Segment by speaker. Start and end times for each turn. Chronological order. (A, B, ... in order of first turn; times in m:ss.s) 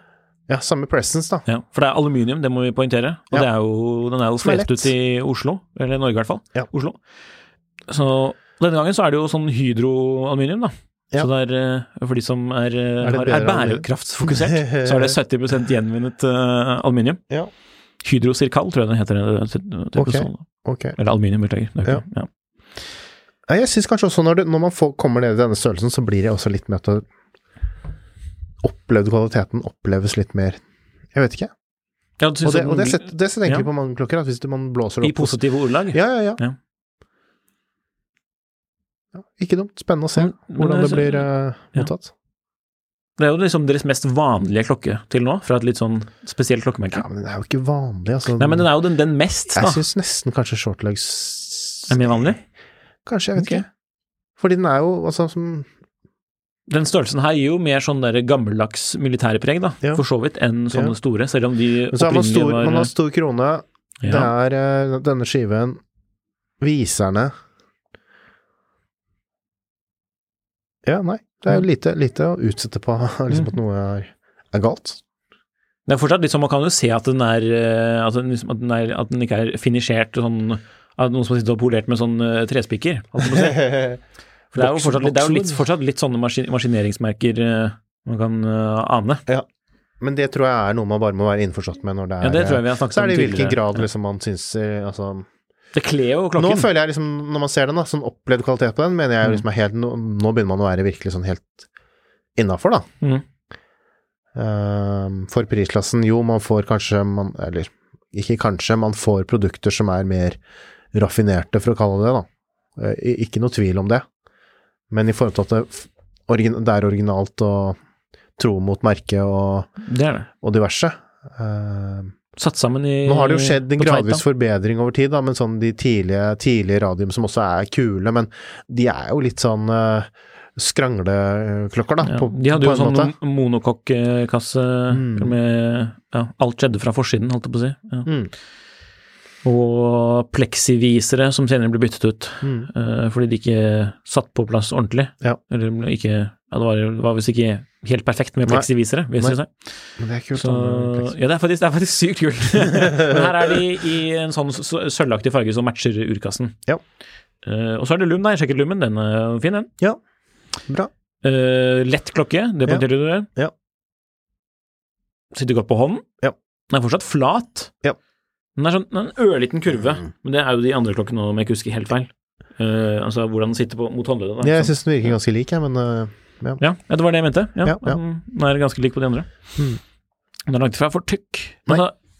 0:00.5-0:01.4 A
0:01.4-0:07.0 B
0:04.4-0:04.9 A
0:07.9-0:17.2 B
0:13.0-0:15.2 A
0:18.0-0:22.3 B
0:20.0-0:21.0 A
0:23.5-0:27.0 A
0:28.6-0:30.6 A
0:31.1-0:31.5 A
0:32.2-0:33.7 B
0:32.4-0:36.4 A
0:35.0-0:36.5 B
0:39.1-0:42.1 A
0:40.2-0:41.9 B
0:43.2-0:47.0 B
0:46.9-0:48.7 A
0:48.3-0:49.8 B
0:49.5-0:52.3 A
0:51.9-0:52.4 B
0:53.0-0:53.7 A
0:53.4-0:53.6 B
0:54.4-0:55.7 A
0:56.7-1:02.9 B
1:00.7-1:01.0 A
1:01.9-1:05.8 A
1:04.0-1:04.3 B
1:06.6-1:07.3 A
1:10.8-1:15.0 A
1:15.8-1:23.9 B
1:23.2-1:24.0 A
1:24.5-1:29.2 B
1:24.5-1:25.6 A
1:30.0-1:35.3 A
1:32.2-1:33.9 B
1:35.7-1:36.7 B
1:36.3-1:41.7 A
1:42.4-1:42.9 A
1:44.3-1:50.4 A
1:50.9-1:54.0 A
1:54.9-1:57.8 A
1:58.4-1:59.7 A
1:59.8-2:00.3 B
2:00.4-2:02.1 A
2:02.4-2:04.2 B
2:03.0-2:13.1 A
2:12.0-2:18.1 B
2:14.9-2:15.4 A
2:18.0-2:18.3 A
2:19.4-2:29.5 B
2:22.4-2:22.7 A
2:28.4-2:29.4 A
2:30.0-2:31.1 A
2:30.3-2:36.6 B
2:32.8-2:33.2 A
2:37.4-2:39.7 B
2:41.2-2:43.3 B
2:42.6-2:43.5 A
2:45.3-2:46.0 B
2:46.7-2:47.7 B
2:48.6-2:55.2 B
2:49.7-2:50.0 A
2:54.4-2:56.6 A
2:56.6-2:59.3 B
2:57.6-2:58.0 A
3:00.5-3:01.9 B